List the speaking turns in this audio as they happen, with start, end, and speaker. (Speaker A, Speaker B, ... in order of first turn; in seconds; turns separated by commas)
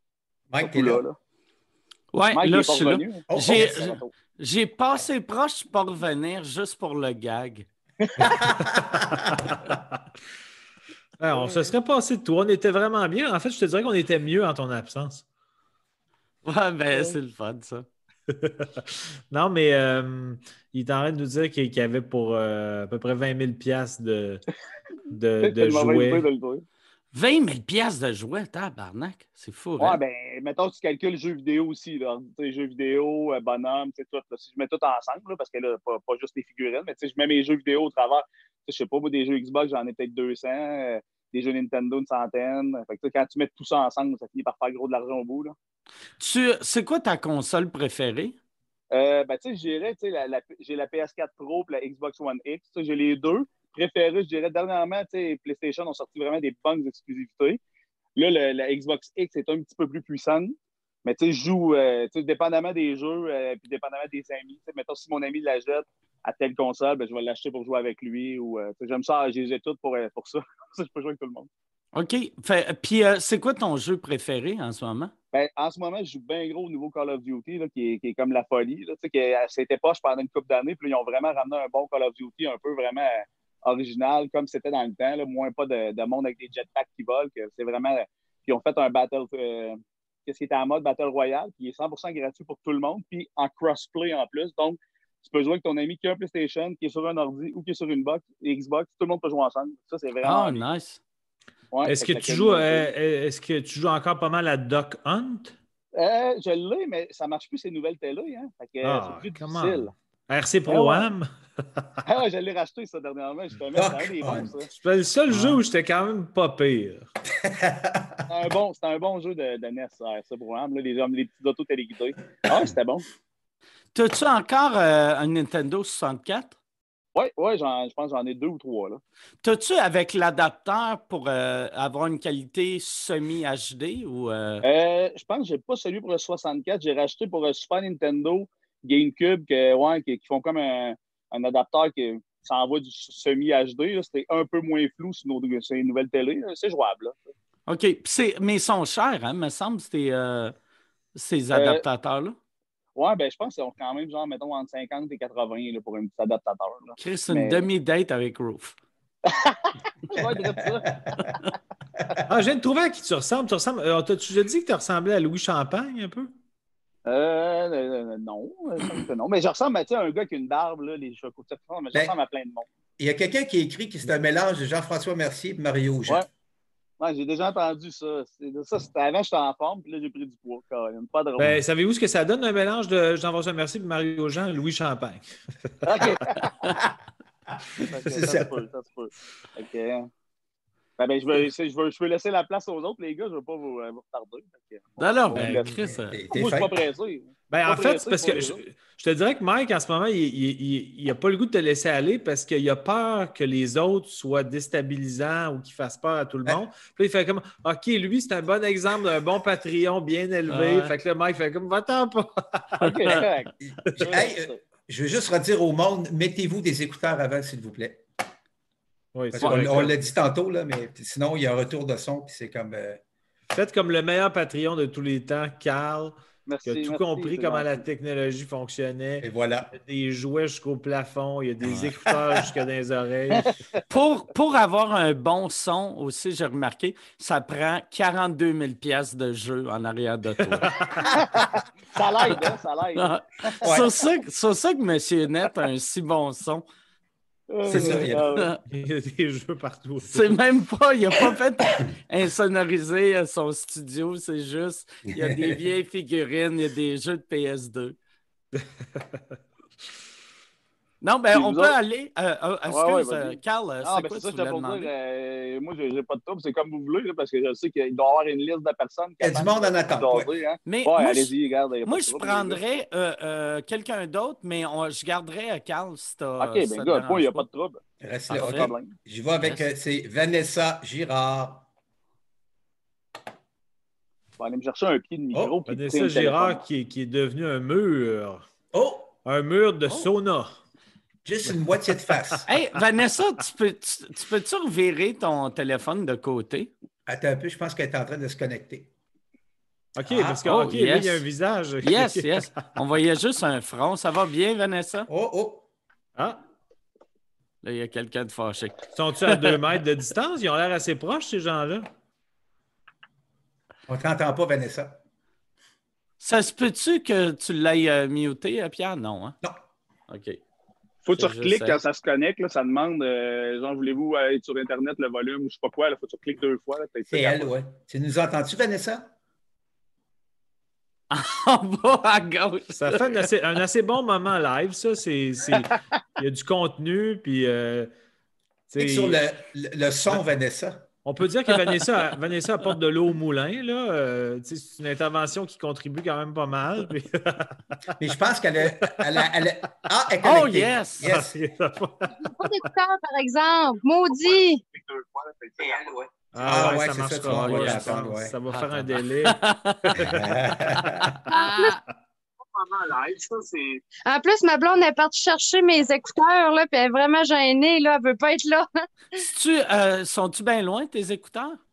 Speaker A: 0.5-1.0, Speaker B: 0.6-1.1, Speaker C: 2.1-7.7, Speaker B: 2.3-4.1, Speaker A: 3.3-4.0, Speaker A: 8.2-9.6, Speaker D: 11.2-15.2, Speaker B: 11.3-11.7, Speaker C: 16.4-17.9, Speaker D: 18.3-24.4, Speaker D: 25.1-26.2, Speaker B: 25.4-26.6, Speaker C: 27.1-30.0, Speaker B: 29.8-45.5, Speaker C: 46.2-48.4, Speaker B: 48.9-57.6, Speaker B: 58.1-71.5, Speaker C: 71.9-75.1, Speaker B: 75.3-100.6, Speaker C: 100.2-101.0, Speaker B: 101.7-102.9, Speaker D: 101.8-105.5, Speaker B: 105.9-109.9, Speaker D: 108.8-111.9, Speaker B: 110.7-111.1, Speaker B: 112.0-114.7, Speaker A: 113.7-114.6, Speaker D: 114.7-117.1, Speaker C: 115.3-115.6, Speaker A: 117.4-118.2, Speaker B: 118.3-123.0, Speaker C: 123.9-126.5, Speaker B: 127.1-129.0, Speaker C: 129.4-134.6, Speaker B: 134.6-147.3, Speaker C: 147.7-150.5, Speaker C: 151.1-152.4, Speaker B: 151.5-151.8, Speaker B: 152.9-157.6, Speaker C: 157.0-158.8, Speaker B: 159.2-160.9, Speaker A: 160.1-161.3, Speaker D: 162.2-166.3, Speaker B: 167.1-172.7, Speaker A: 173.0-176.2, Speaker B: 177.0-181.6, Speaker D: 181.4-185.2, Speaker B: 185.8-186.5, Speaker B: 187.9-190.1, Speaker A: 188.0-188.6, Speaker B: 191.0-195.7, Speaker C: 195.0-196.2, Speaker D: 195.3-195.9, Speaker A: 195.8-196.7, Speaker B: 196.3-198.6, Speaker D: 197.5-212.8, Speaker C: 210.5-210.9, Speaker B: 212.8-214.6, Speaker A: 213.6-218.0, Speaker D: 219.1-219.9, Speaker A: 219.3-223.0, Speaker D: 223.5-233.5, Speaker B: 226.5-227.8, Speaker A: 229.2-229.7, Speaker C: 233.9-240.7, Speaker D: 240.5-241.0, Speaker B: 241.1-243.1, Speaker C: 243.0-246.7, Speaker A: 243.6-243.9, Speaker B: 247.5-248.5, Speaker A: 247.7-248.3, Speaker C: 247.7-248.6, Speaker D: 248.7-250.3, Speaker C: 250.0-257.9, Speaker A: 255.1-255.6, Speaker D: 258.6-259.2, Speaker C: 261.0-264.9, Speaker B: 261.3-261.7, Speaker B: 262.7-272.6, Speaker A: 269.2-270.3, Speaker C: 270.6-271.3, Speaker C: 271.9-277.4, Speaker B: 276.4-277.8, Speaker A: 278.0-281.7, Speaker C: 278.3-278.7, Speaker B: 278.4-278.9, Speaker B: 284.4-286.6, Speaker D: 285.7-288.4, Speaker A: 288.7-289.1, Speaker D: 289.2-290.6, Speaker A: 291.2-292.4, Speaker C: 292.5-296.7, Speaker A: 297.1-298.9, Speaker D: 299.9-302.5, Speaker A: 300.0-300.4, Speaker C: 300.4-301.2, Speaker C: 301.8-305.1, Speaker A: 305.1-305.7, Speaker D: 306.1-306.4, Speaker C: 307.6-309.5, Speaker D: 308.9-311.9, Speaker A: 313.9-315.0, Speaker C: 316.2-319.4, Speaker C: 320.1-320.4, Speaker B: 321.0-327.5, Speaker C: 321.1-321.8, Speaker A: 327.1-329.1, Speaker C: 331.1-333.2, Speaker D: 332.7-337.9, Speaker D: 338.7-339.2, Speaker A: 338.8-340.9, Speaker D: 341.0-347.5, Speaker A: 348.0-351.4, Speaker C: 350.2-351.1, Speaker D: 351.0-352.6, Speaker E: 352.3-354.6, Speaker D: 356.3-360.2, Speaker A: 356.4-358.3, Speaker C: 357.3-358.0, Speaker C: 358.5-359.9, Speaker A: 360.0-361.1, Speaker C: 360.8-361.7, Speaker E: 361.3-361.8, Speaker B: 363.0-363.5, Speaker E: 364.0-368.7, Speaker C: 369.2-371.6